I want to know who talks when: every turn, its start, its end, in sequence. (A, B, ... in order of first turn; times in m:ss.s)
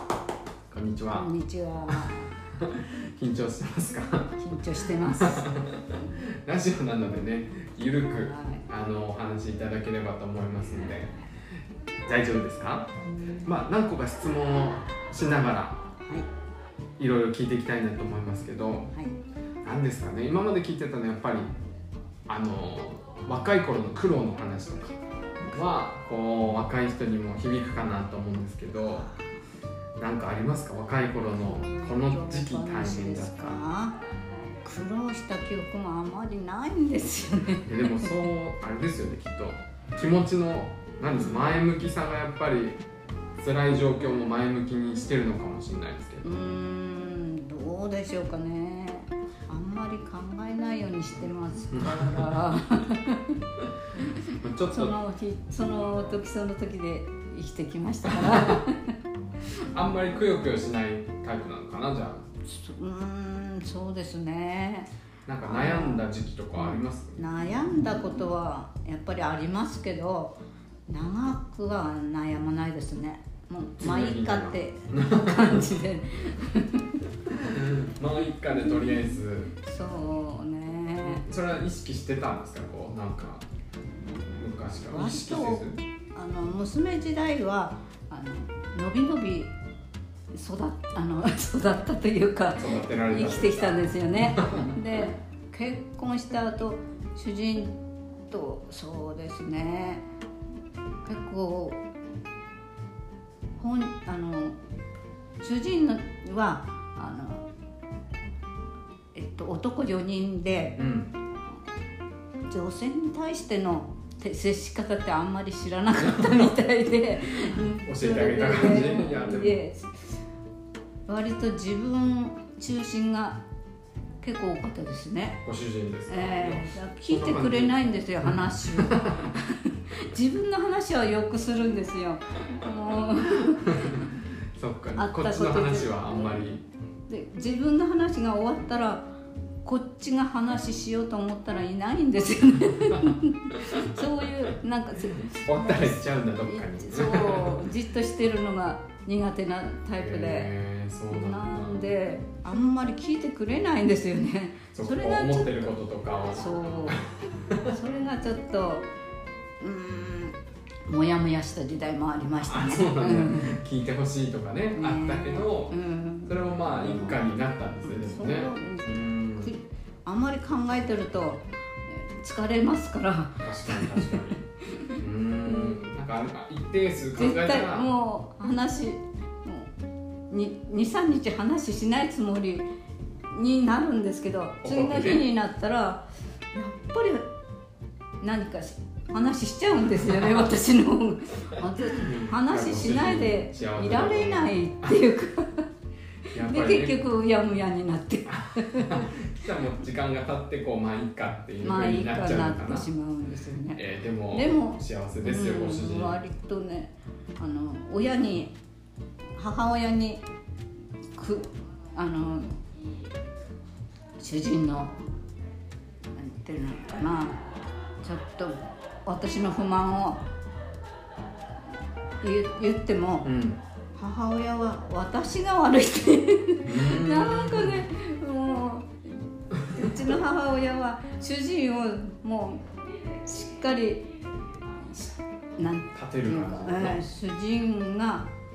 0:00.7-0:01.3 A
0:01.1-0:02.3 B
0:01.9-0:11.1 A
0:04.4-0:05.5 B
0:08.2-0:08.6 B
0:12.0-0:12.9 A
0:13.2-0:13.4 B
0:13.4-0:15.8 A
0:16.0-0:16.3 B
0:17.0-0:18.9 A
0:18.9-0:19.2 B
0:19.6-0:21.5 A
0:22.3-0:25.0 A
0:25.5-0:29.1 A
0:28.8-0:29.2 B
0:30.0-0:33.6 A
0:31.4-0:34.0 B
0:34.6-0:38.1 B
0:37.6-0:42.8 A
0:43.4-0:46.3 A
0:46.2-0:53.4 B
0:51.7-0:52.3 A
0:54.4-0:55.0 A
0:54.7-0:58.9 B
0:58.1-0:58.6 A
0:59.7-1:02.2 A
1:02.4-1:04.9 B
1:05.2-1:07.2 A
1:05.4-1:06.0 B
1:06.6-1:17.5 B
1:13.8-1:15.7 A
1:17.4-1:19.5 A
1:19.6-1:21.2 B
1:21.1-1:23.4 A
1:24.1-1:25.8 A
1:24.9-1:29.5 B
1:30.3-1:37.8 B
1:32.6-1:34.8 A
1:38.3-1:40.0 B
1:41.0-1:41.8 B
1:43.6-1:44.6 B
1:45.4-1:47.5 B
1:49.1-1:50.8 B
1:50.8-1:51.1 A
1:52.5-2:00.1 B
1:56.0-1:56.6 A
1:57.7-1:59.6 A
2:01.1-2:03.4 B
2:04.2-2:05.4 B
2:05.4-2:09.3 A
2:06.1-2:14.1 B
2:13.5-2:14.0 A
2:14.6-2:16.6 A
2:15.0-2:16.3 B
2:17.1-2:19.1 B
2:19.6-2:30.5 B
2:25.3-2:27.6 A
2:29.9-2:31.8 A
2:31.1-2:35.7 B
2:34.7-2:37.7 A
2:36.3-2:37.1 B
2:37.6-2:38.9 B
2:39.6-2:43.6 B
2:42.4-2:49.5 A
2:44.7-2:47.2 B
2:47.8-2:55.9 B
2:53.4-2:54.4 A
2:55.0-2:57.9 A
2:57.2-2:59.7 B
3:00.3-3:02.7 B
3:03.3-3:07.3 B
3:04.6-3:05.2 A
3:08.2-3:15.7 B
3:10.0-3:10.4 A
3:11.7-3:15.0 A
3:16.3-3:17.0 A
3:16.3-3:19.1 B
3:18.3-3:22.9 A
3:21.6-3:23.8 B
3:23.7-3:26.2 A
3:24.3-3:28.5 B
3:29.4-3:30.2 B
3:31.2-3:32.6 B
3:34.2-3:35.0 B
3:36.2-3:37.4 B
3:38.0-3:40.2 B
3:42.2-3:43.3 B
3:43.2-3:43.6 A
3:44.0-3:52.6 B
3:46.6-3:47.8 A
3:53.2-3:54.1 B
3:54.8-3:58.3 B
3:55.9-3:57.0 A